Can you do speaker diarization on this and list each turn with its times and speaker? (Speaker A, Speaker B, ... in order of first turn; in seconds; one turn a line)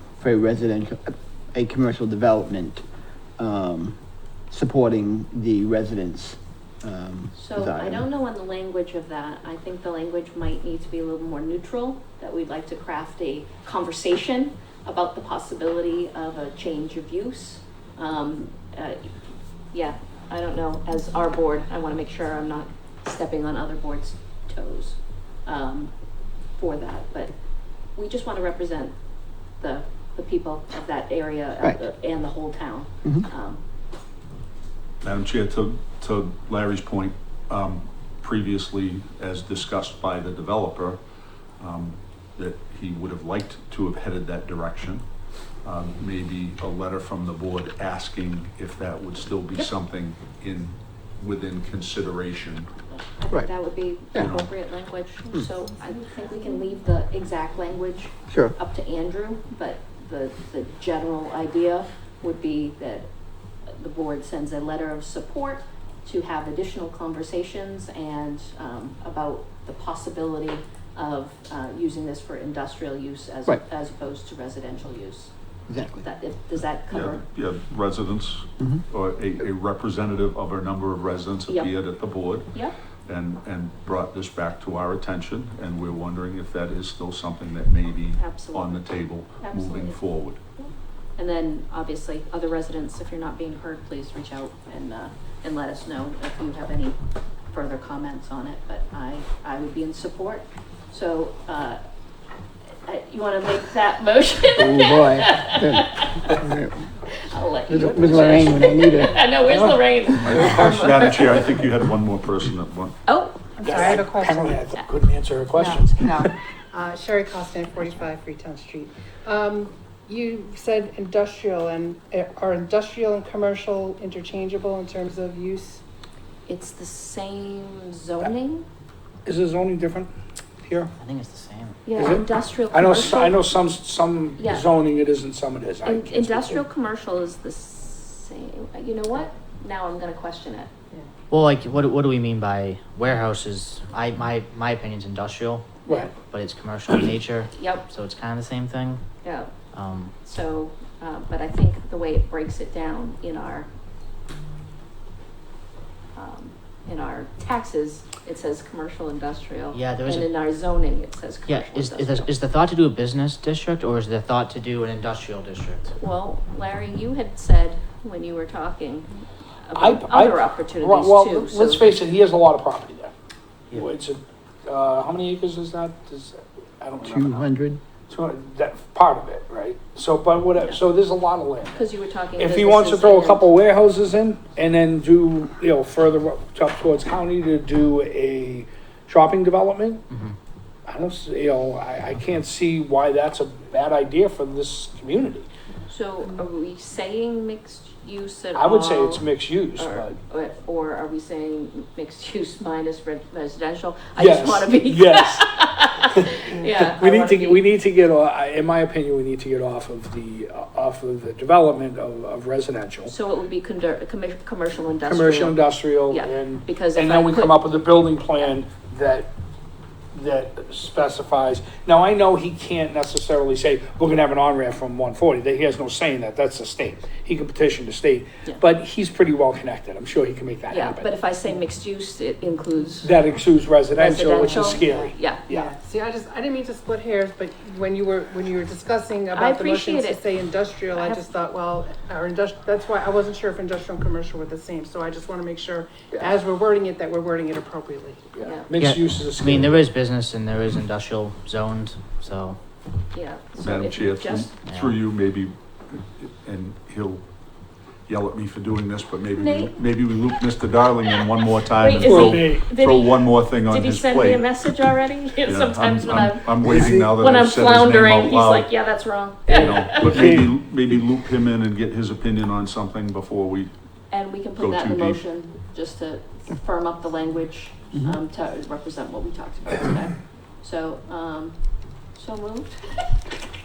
Speaker A: 0.2-2.8
Speaker A: 3.4-4.0
Speaker A: 4.5-8.0
Speaker B: 7.3-19.0
Speaker B: 19.7-25.9
Speaker B: 26.6-27.3
Speaker B: 27.9-28.9
Speaker B: 29.6-33.6
Speaker C: 35.0-41.0
Speaker C: 41.6-45.0
Speaker C: 45.6-52.7
Speaker B: 52.9-63.1
Speaker C: 54.1-54.5
Speaker A: 58.3-58.5
Speaker B: 63.7-75.3
Speaker A: 75.7-76.0
Speaker B: 76.0-77.2
Speaker C: 76.9-82.5
Speaker B: 81.5-81.7
Speaker C: 83.0-90.4
Speaker B: 88.1-88.9
Speaker B: 89.4-90.0
Speaker B: 90.6-97.0
Speaker B: 97.5-101.8
Speaker B: 102.8-106.3
Speaker A: 104.5-106.8
Speaker B: 107.3-111.4
Speaker A: 107.7-109.2
Speaker D: 109.4-110.8
Speaker C: 110.2-113.0
Speaker B: 113.1-113.5
Speaker E: 113.6-114.7
Speaker D: 113.6-116.3
Speaker A: 115.5-116.3
Speaker E: 116.7-125.8
Speaker B: 126.5-128.7
Speaker D: 129.2-130.1
Speaker D: 130.6-130.9
Speaker F: 131.0-131.9
Speaker B: 131.8-133.4
Speaker D: 131.9-136.6
Speaker B: 134.4-134.7
Speaker B: 135.8-140.7
Speaker F: 141.3-149.0
Speaker D: 145.9-146.1
Speaker B: 147.5-147.9
Speaker B: 149.2-149.5
Speaker F: 149.7-150.1
Speaker B: 150.2-153.7
Speaker B: 156.1-162.3
Speaker F: 159.7-160.3
Speaker F: 161.4-165.9
Speaker B: 166.0-169.1
Speaker B: 169.7-171.9
Speaker D: 169.7-173.1
Speaker D: 173.7-177.5
Speaker A: 177.0-177.8
Speaker D: 178.1-190.0
Speaker B: 181.7-183.5
Speaker D: 190.8-195.5
Speaker B: 195.9-207.6
Speaker D: 198.5-200.1
Speaker D: 204.2-213.1
Speaker B: 213.0-217.7
Speaker D: 215.0-219.3
Speaker D: 220.1-231.1
Speaker B: 230.7-233.1
Speaker D: 233.0-235.7
Speaker B: 234.0-235.4
Speaker E: 234.5-234.9
Speaker E: 235.5-248.3
Speaker B: 239.3-240.2
Speaker B: 240.9-241.2
Speaker D: 248.3-249.9
Speaker B: 248.4-248.7
Speaker F: 248.7-252.6
Speaker B: 253.1-254.5
Speaker C: 253.6-257.2
Speaker F: 254.7-255.0
Speaker C: 258.1-264.9
Speaker B: 259.3-259.8
Speaker B: 261.7-270.2
Speaker D: 262.0-262.6
Speaker C: 265.4-268.8
Speaker D: 266.6-267.1
Speaker D: 269.5-270.6
Speaker C: 269.5-273.7
Speaker B: 274.1-281.6
Speaker C: 274.6-275.2
Speaker B: 282.1-283.2